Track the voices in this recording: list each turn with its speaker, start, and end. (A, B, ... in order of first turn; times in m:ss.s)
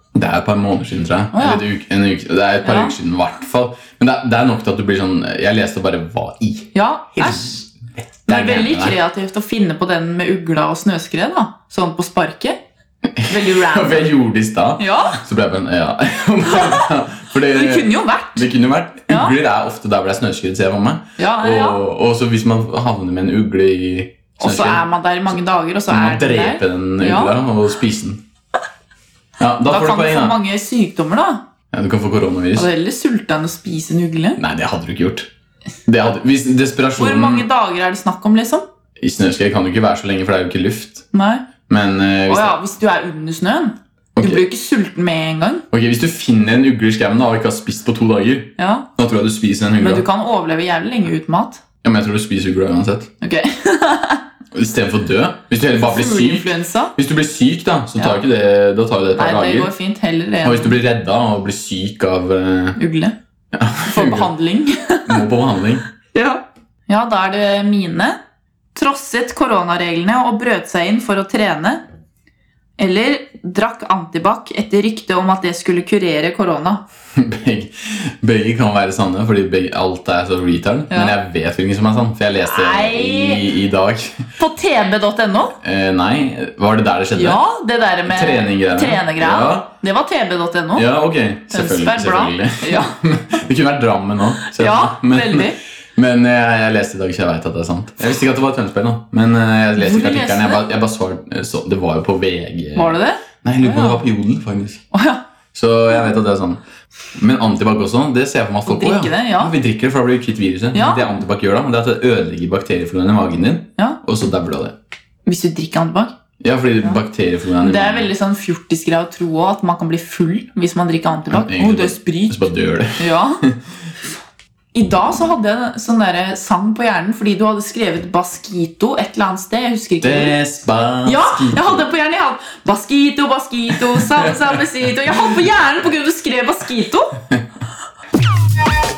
0:00.1-0:09.0 A
0:01.3-0:01.6 B
0:02.6-0:03.0 B
0:06.7-0:07.6 B
0:08.3-0:12.6 B
0:13.1-0:24.8 A
0:13.3-0:14.1 B
0:14.8-0:15.2 B
0:16.4-0:16.9 B
0:17.4-0:18.5 B
0:19.1-0:19.4 B
0:21.2-0:21.8 B
0:24.4-0:27.4 B
0:25.9-0:28.2 A
0:29.4-0:30.4 A
0:29.7-0:31.4 B
0:31.7-0:32.7 A
0:32.6-0:34.4 B
0:34.4-0:35.3 A
0:35.9-0:37.5 A
0:37.0-0:38.6 B
0:39.0-0:41.1 A
0:41.1-0:41.5 B
0:41.7-0:42.6 A
0:42.3-0:45.7 B
0:44.2-0:44.4 A
0:45.7-0:50.0 A
0:48.6-0:48.9 B
0:49.8-0:51.6 B
0:51.8-0:53.1 A
0:53.2-0:54.2 B
0:54.5-0:59.7 A
0:55.8-0:57.0 B
0:58.0-0:58.2 B
0:59.1-1:00.8 B
1:00.4-1:02.8 A
1:02.8-1:03.2 B
1:03.5-1:04.3 A
1:03.9-1:05.2 B
1:05.1-1:05.8 A
1:06.0-1:08.2 B
1:08.8-1:11.8 B
1:12.8-1:16.8 B
1:17.2-1:24.3 A
1:20.9-1:21.2 B
1:22.4-1:23.5 B
1:24.4-1:25.6 B
1:25.6-1:27.4 A
1:27.2-1:30.9 B
1:28.1-1:29.7 A
1:30.8-1:44.8 A
1:31.5-1:33.0 B
1:34.5-1:35.6 B
1:39.8-1:40.6 B
1:42.8-1:44.0 B
1:44.9-1:45.2 B
1:45.5-1:46.6 A
1:47.2-1:54.8 A
1:48.7-1:49.5 B
1:50.7-1:51.0 B
1:55.3-1:56.2 B
1:56.4-1:58.1 A
1:57.6-2:02.4 B
2:01.3-2:03.6 A
2:03.0-2:03.4 B
2:04.7-2:10.3 B
2:10.0-2:11.9 A
2:11.0-2:17.2 B
2:14.1-2:14.5 A